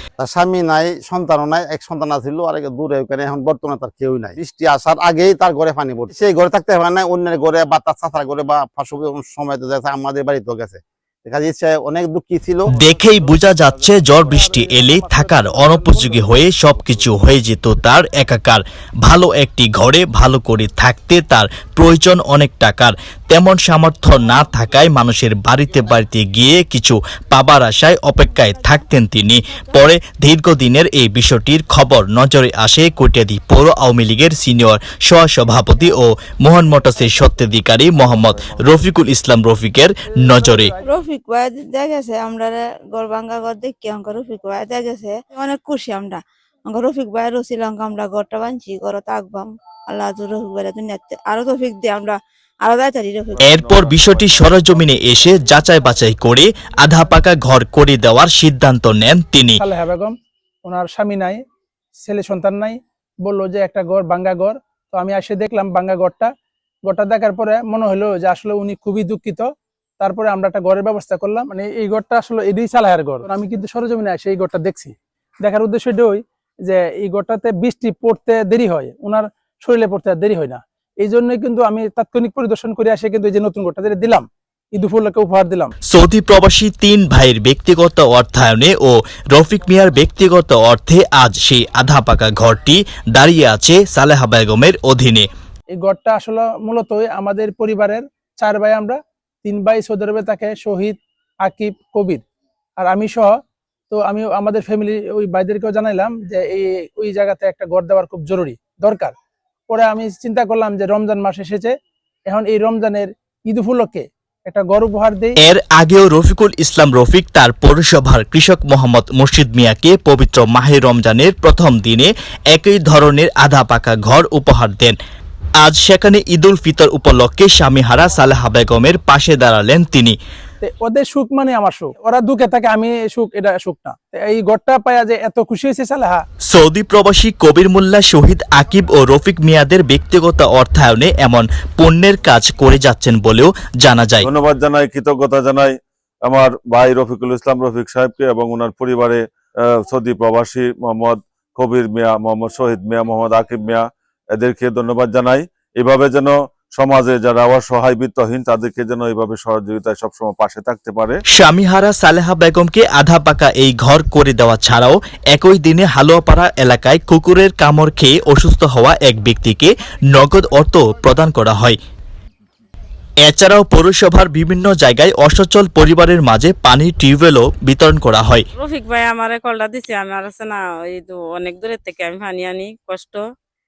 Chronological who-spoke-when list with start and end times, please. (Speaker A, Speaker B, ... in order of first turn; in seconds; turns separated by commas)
Speaker A: 0.2-12.7, Speaker B: 12.7-14.5, Speaker C: 12.8-40.7, Speaker D: 14.3-16.2, Speaker B: 16.7-17.0, Speaker E: 28.1-29.9, Speaker B: 37.9-38.8, Speaker D: 40.1-41.0, Speaker E: 40.8-53.4, Speaker B: 53.3-56.0, Speaker C: 53.4-59.6, Speaker D: 59.6-60.1, Speaker D: 60.6-61.4, Speaker D: 62.0-66.3, Speaker D: 66.8-69.5, Speaker D: 70.0-85.7, Speaker C: 85.9-95.3, Speaker D: 95.8-102.2, Speaker D: 102.8-103.3, Speaker D: 103.9-109.1, Speaker D: 109.7-111.7, Speaker D: 112.3-115.4, Speaker C: 115.4-125.0, Speaker C: 125.6-130.2, Speaker D: 130.6-136.2, Speaker C: 136.5-144.3, Speaker B: 144.2-161.2, Speaker C: 161.3-171.8, Speaker C: 173.2-178.4, Speaker F: 178.6-183.2